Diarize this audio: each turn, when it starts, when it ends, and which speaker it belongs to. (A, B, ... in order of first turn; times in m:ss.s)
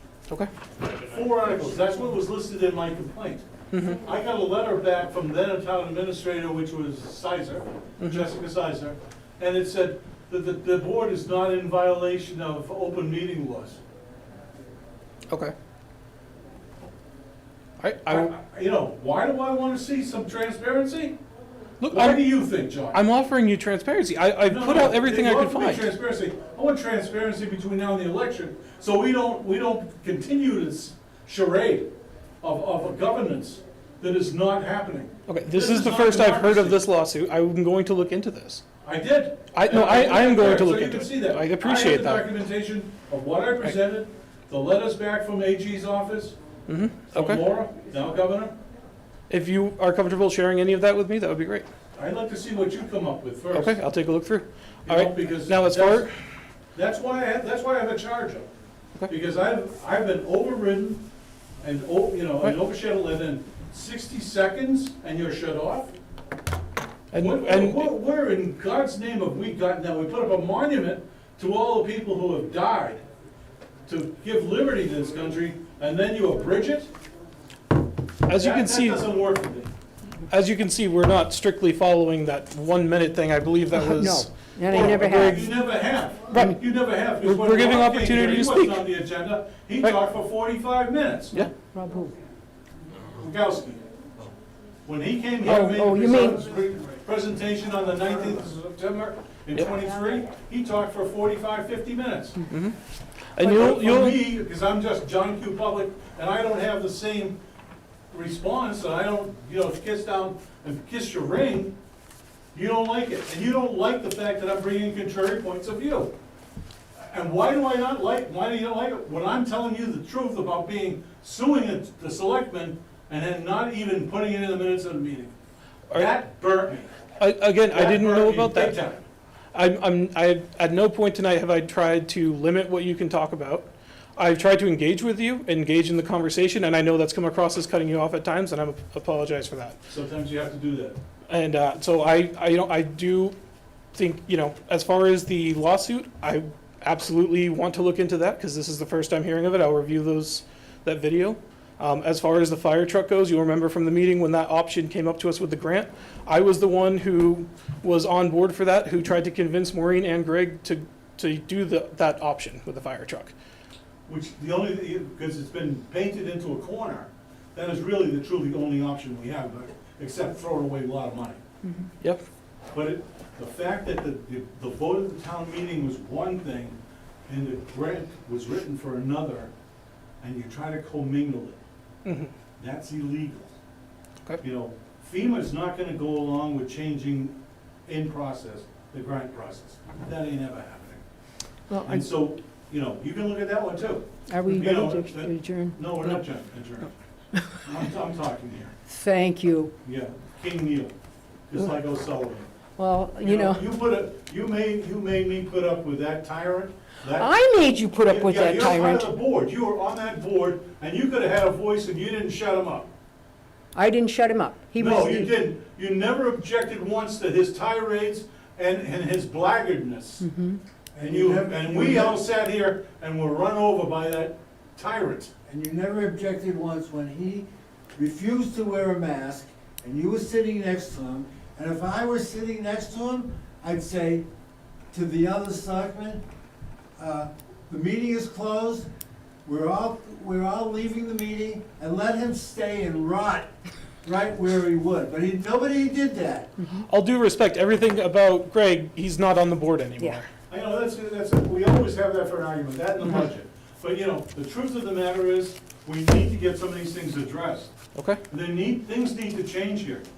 0:01.0-0:13.8 A
0:03.7-0:04.0 B
0:08.0-0:08.2 B
0:15.3-0:15.5 B
0:17.8-0:18.3 B
0:18.0-0:21.2 A
0:21.8-0:22.3 B
0:21.9-0:23.0 A
0:22.9-0:25.9 B
0:24.4-0:31.9 A
0:32.4-0:36.8 A
0:35.3-0:38.6 B
0:38.8-0:46.4 A
0:39.5-0:42.3 B
0:46.7-0:47.5 B
0:47.1-0:48.5 A
0:49.3-0:51.7 B
0:51.9-0:53.8 A
0:53.5-0:56.1 B
0:54.9-0:56.1 A
0:56.7-0:58.5 A
0:59.1-1:01.0 A
1:01.6-1:05.9 A
1:07.1-1:07.9 B
1:07.1-1:13.0 A
1:13.9-1:16.9 A
1:18.2-1:19.1 B
1:18.3-1:19.7 A
1:20.3-1:25.5 B
1:23.7-1:25.5 C
1:24.7-1:31.4 A
1:26.3-1:26.6 C
1:27.2-1:28.9 B
1:31.7-1:32.2 C
1:33.1-1:33.8 A
1:34.8-1:42.4 A
1:35.4-1:36.4 C
1:42.5-1:42.7 B
1:43.3-1:44.2 B
1:43.4-1:47.4 A
1:48.1-1:51.7 A
1:52.5-1:56.1 A
1:57.0-2:05.3 A
2:05.9-2:06.9 A
2:07.2-2:08.8 B
2:07.7-2:09.0 A
2:09.5-2:19.8 B
2:19.9-2:21.0 A
2:21.3-2:23.3 B
2:23.9-2:43.3 B
2:44.1-2:51.4 A
2:52.7-2:59.5 A
3:00.2-3:01.6 A
3:02.0-3:02.3 B
3:02.6-3:03.5 A
3:04.4-3:11.0 A
3:11.7-3:12.0 C
3:11.8-3:16.9 A
3:14.3-3:16.2 C
3:17.5-3:18.7 A
3:18.9-3:19.7 C
3:19.8-3:20.9 A
3:21.5-3:22.5 A
3:22.8-3:23.6 C
3:23.2-3:27.4 A
3:27.1-3:29.1 C
3:28.0-3:32.9 A
3:33.7-3:35.4 C
3:34.8-3:40.2 A
3:40.2-3:40.6 C
3:40.9-3:42.2 D
3:41.0-3:45.3 A
3:45.5-3:54.2 D
3:54.9-3:56.2 D
3:57.0-3:58.9 D
3:59.4-4:03.5 D
4:04.0-4:06.5 D
4:06.8-4:10.3 B
4:10.5-4:17.7 A
4:17.9-4:18.2 B
4:18.3-4:20.0 A